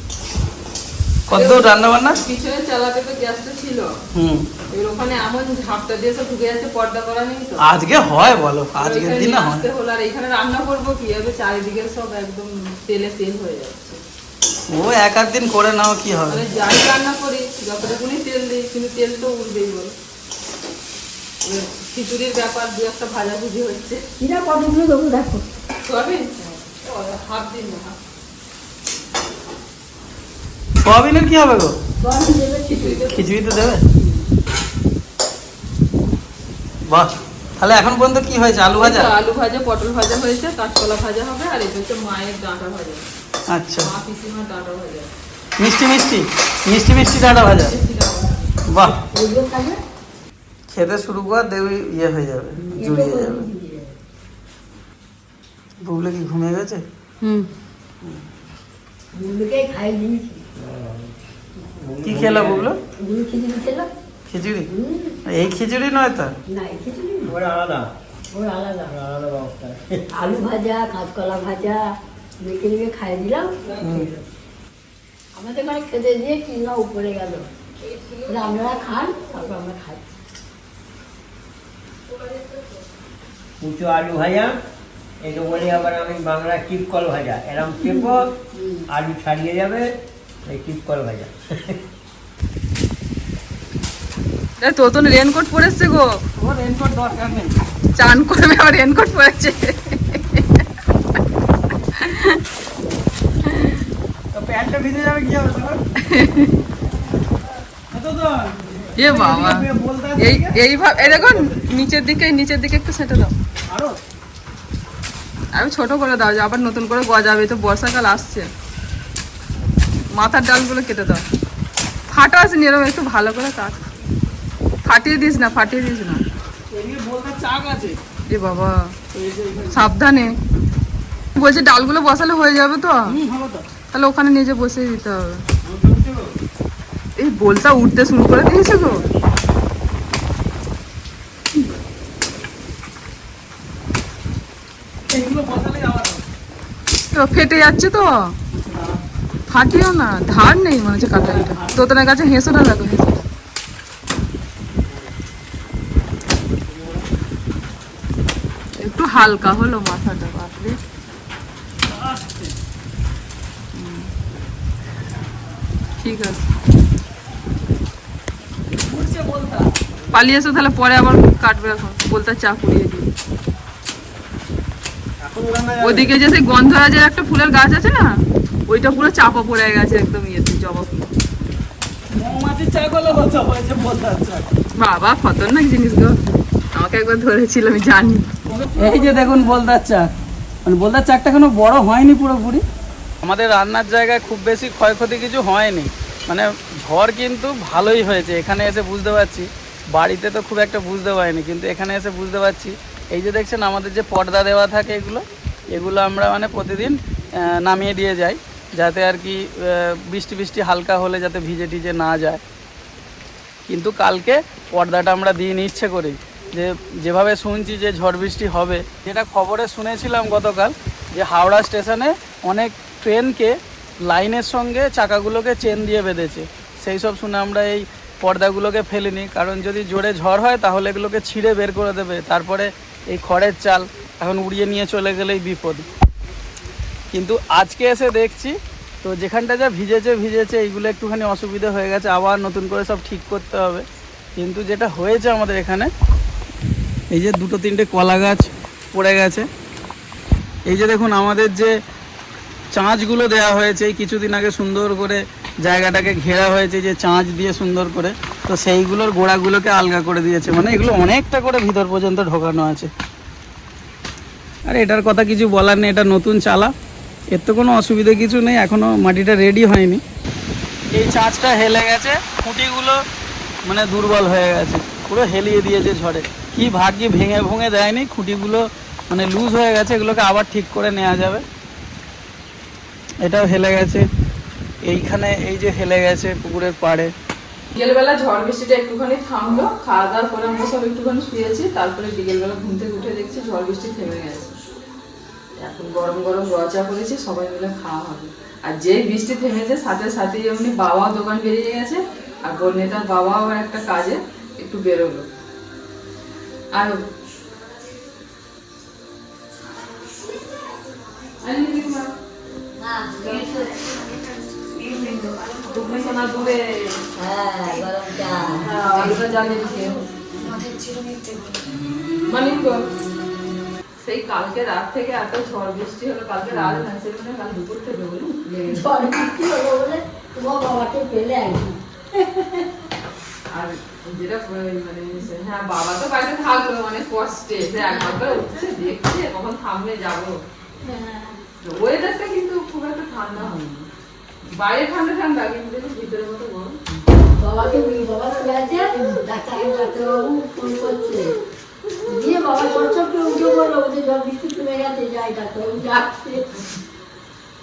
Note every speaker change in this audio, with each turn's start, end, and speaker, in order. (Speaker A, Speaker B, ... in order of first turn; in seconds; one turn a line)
Speaker A: 1.3-2.2
Speaker B: 1.3-4.0
Speaker A: 4.1-4.5
Speaker B: 4.7-7.7
Speaker A: 7.6-9.7
Speaker B: 8.8-14.0
Speaker A: 14.7-16.4
Speaker B: 16.3-19.9
Speaker B: 21.4-24.1
Speaker C: 24.2-25.4
Speaker B: 25.9-28.0
Speaker A: 30.8-31.8
Speaker C: 32.0-33.1
Speaker B: 32.7-33.2
Speaker A: 33.1-33.8
Speaker A: 36.9-39.1
Speaker B: 38.8-43.0
Speaker A: 43.5-43.9
Speaker B: 43.8-45.1
Speaker A: 45.6-47.7
Speaker B: 47.2-48.5
Speaker A: 48.7-49.0
Speaker C: 49.0-49.8
Speaker A: 50.7-53.5
Speaker C: 52.6-54.0
Speaker A: 55.8-56.8
Speaker C: 57.2-57.5
Speaker C: 59.1-60.4
Speaker D: 60.6-62.7
Speaker A: 62.0-62.8
Speaker C: 63.0-63.9
Speaker A: 64.3-64.7
Speaker C: 64.7-65.2
Speaker A: 65.3-66.3
Speaker C: 66.5-67.4
Speaker D: 67.3-70.0
Speaker C: 70.2-73.6
Speaker D: 73.6-74.2
Speaker A: 73.8-74.1
Speaker C: 75.3-77.5
Speaker B: 77.8-78.9
Speaker C: 78.3-80.0
Speaker D: 83.6-84.5
Speaker D: 85.2-88.3
Speaker C: 87.8-88.8
Speaker D: 88.9-89.9
Speaker D: 90.5-91.8
Speaker B: 94.6-96.2
Speaker A: 96.4-97.6
Speaker B: 98.0-100.6
Speaker B: 102.0-102.4
Speaker B: 103.5-103.8
Speaker A: 104.3-105.8
Speaker B: 106.0-106.6
Speaker A: 107.9-111.7
Speaker B: 109.0-113.3
Speaker B: 115.5-118.5
Speaker B: 120.1-121.2
Speaker B: 122.1-123.8
Speaker B: 124.8-126.2
Speaker A: 126.7-128.0
Speaker B: 128.3-129.0
Speaker A: 129.1-129.9
Speaker B: 129.7-130.4
Speaker B: 131.3-133.2
Speaker A: 133.1-133.6
Speaker B: 133.9-135.4
Speaker A: 135.6-136.3
Speaker B: 137.2-139.1
Speaker A: 145.1-146.2
Speaker B: 147.1-148.3
Speaker A: 148.5-149.0
Speaker B: 149.5-153.2
Speaker A: 151.0-151.9
Speaker B: 158.8-160.8
Speaker A: 161.9-162.5
Speaker B: 163.7-164.1
Speaker B: 166.0-166.5
Speaker A: 168.9-169.7
Speaker B: 170.1-173.1
Speaker D: 175.2-176.1
Speaker A: 175.5-176.0
Speaker B: 175.8-181.1
Speaker A: 182.1-184.5
Speaker B: 184.8-188.3
Speaker A: 188.5-190.1
Speaker A: 190.7-192.6
Speaker A: 193.2-212.4
Speaker A: 213.7-235.9
Speaker A: 237.1-243.8
Speaker A: 244.4-245.9
Speaker A: 247.1-249.5
Speaker A: 250.7-251.7
Speaker A: 252.7-262.9
Speaker A: 264.7-266.7
Speaker A: 267.3-270.0
Speaker A: 270.9-273.0
Speaker A: 273.6-281.4
Speaker A: 283.2-284.1
Speaker A: 284.8-287.1
Speaker B: 287.7-294.6
Speaker B: 295.6-305.3
Speaker B: 306.7-307.0
Speaker B: 311.4-312.1
Speaker C: 312.8-316.2
Speaker B: 313.2-313.6
Speaker B: 314.8-317.0
Speaker C: 317.1-321.8
Speaker B: 318.6-320.0
Speaker B: 322.3-322.9
Speaker B: 324.0-328.9
Speaker C: 328.6-332.7
Speaker B: 333.5-340.4
Speaker C: 337.8-338.4
Speaker C: 340.8-341.4
Speaker B: 341.6-343.9
Speaker B: 344.5-346.8
Speaker C: 347.4-351.4
Speaker C: 352.1-356.5